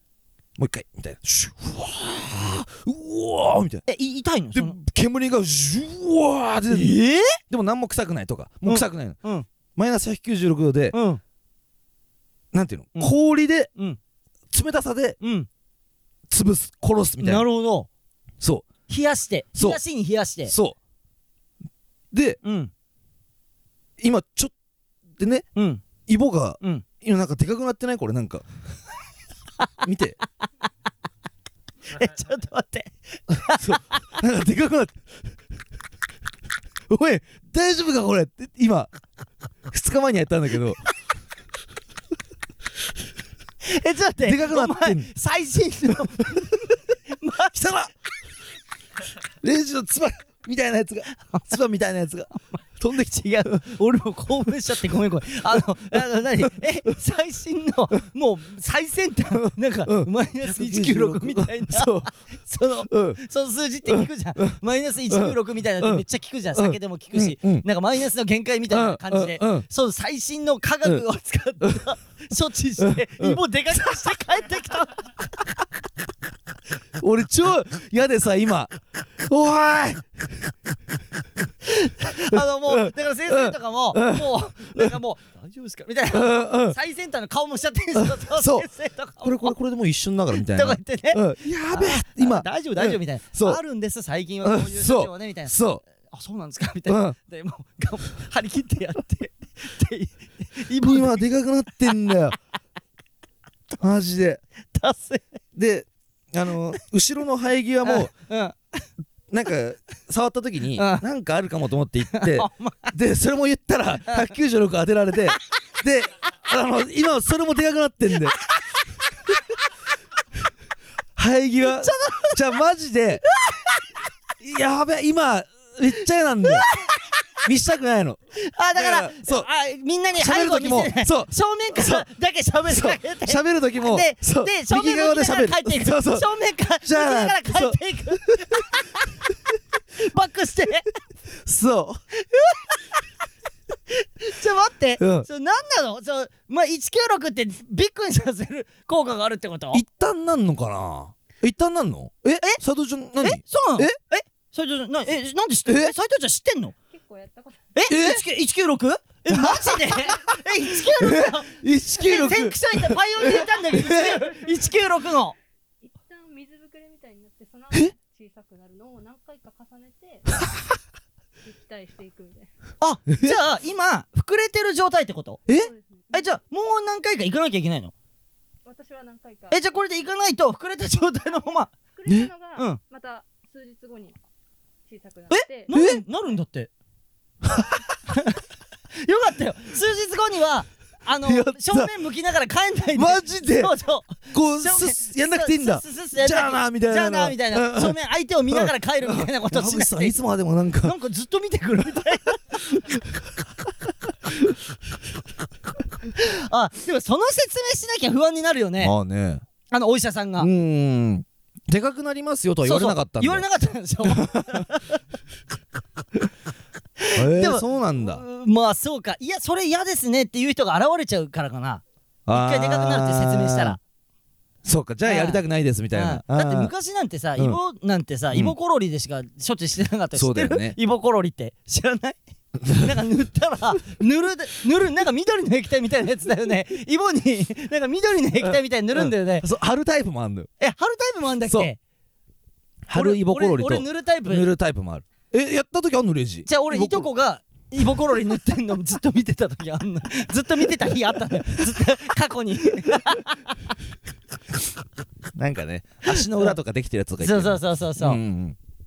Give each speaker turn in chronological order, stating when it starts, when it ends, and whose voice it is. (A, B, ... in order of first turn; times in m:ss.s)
0:00.6-0:03.8 A
0:03.8-0:04.8 B
0:04.5-0:07.0 A
0:06.7-0:07.4 B
0:07.5-0:09.2 A
0:08.6-0:09.4 B
0:09.8-0:11.0 A
0:10.9-0:11.2 B
0:12.5-0:13.7 A
0:14.5-0:15.2 A
0:15.2-0:15.5 B
0:16.3-0:17.4 A
0:17.2-0:17.9 B
0:18.4-0:18.7 A
0:18.9-0:20.5 B
0:19.6-0:19.8 A
0:20.4-0:20.8 A
0:22.1-0:22.4 A
0:22.4-0:22.7 B
0:24.0-0:24.5 A
0:25.2-0:25.5 A
0:25.5-0:25.8 B
0:26.1-0:28.5 A
0:29.8-0:30.2 A
0:31.9-0:34.2 B
0:33.5-0:35.1 A
0:36.9-0:38.9 A
0:39.7-0:40.8 A
0:43.6-0:47.8 B
0:44.2-0:45.1 A
0:47.5-0:47.9 A
0:49.4-0:53.6 A
0:51.1-0:51.5 B
0:52.5-1:15.1 B
0:59.4-1:02.1 A
1:02.9-1:03.2 A
1:05.1-1:06.0 A
1:06.5-1:07.6 A
1:08.7-1:09.6 A
1:12.8-1:13.4 A
1:17.0-1:20.5 A
1:21.7-1:29.5 B
1:22.1-1:24.9 A
1:26.1-1:26.8 A
1:28.0-1:28.7 A
1:29.2-1:33.6 A
1:30.4-1:41.2 B
1:34.4-1:35.8 A
1:36.9-1:37.2 A
1:40.8-1:42.4 A
1:43.8-1:44.4 A
1:44.7-1:45.3 B
1:45.5-1:48.1 A
1:47.8-1:48.8 B
1:49.3-1:58.4 A
1:50.8-1:51.0 B
1:52.1-1:52.9 B
2:01.2-2:03.2 A
2:01.6-2:02.5 B
2:03.3-2:04.0 B
2:04.4-2:06.7 A
2:06.4-2:07.2 B
2:07.4-2:08.2 A
2:08.4-2:19.1 B
2:08.7-2:09.5 A
2:10.2-2:12.1 A
2:12.7-2:16.3 A
2:16.8-2:18.6 A
2:20.0-2:20.9 B
2:21.4-2:22.0 A
2:22.1-2:22.8 B
2:23.9-2:29.8 B
2:25.0-2:25.3 A
2:29.7-2:34.0 A
2:33.2-2:36.7 B
2:35.6-2:35.9 A
2:36.9-2:37.8 C
2:37.7-2:45.4 B
2:37.9-2:38.2 A
2:39.3-2:44.3 A
2:44.2-2:44.8 C
2:45.8-2:50.4 C
2:51.4-2:52.5 C
2:52.8-2:55.5 B
2:53.1-2:53.4 A
2:55.5-2:56.3 C
2:56.1-2:57.9 B
2:58.6-2:59.7 C
2:59.5-3:01.7 B
3:01.2-3:04.2 C
3:02.0-3:02.3 A
3:04.8-3:05.7 C
3:05.3-3:06.7 B
3:05.7-3:06.0 A
3:07.4-3:07.8 A
3:08.1-3:08.4 B
3:08.9-3:20.2 B
3:11.2-3:11.9 A
3:12.9-3:13.7 A
3:14.3-3:18.0 A
3:18.5-3:21.0 A
3:20.8-3:22.6 B
3:26.1-3:28.9 B
3:28.8-3:29.4 A
3:29.7-3:30.5 B
3:30.4-3:33.4 A
3:32.6-3:35.0 B
3:34.0-3:34.6 A
3:37.0-3:43.8 B
3:37.1-3:38.2 A
3:42.2-3:43.8 A
3:44.6-3:46.7 A
3:45.0-3:59.5 B
3:50.1-3:50.8 A
3:52.6-3:52.9 A
3:58.4-4:00.5 A
4:00.6-4:01.8 B
4:02.8-4:07.1 A
4:02.9-4:04.5 B
4:06.5-4:13.6 B
4:15.3-4:18.6 A
4:16.1-4:16.5 B
4:17.2-4:18.2 B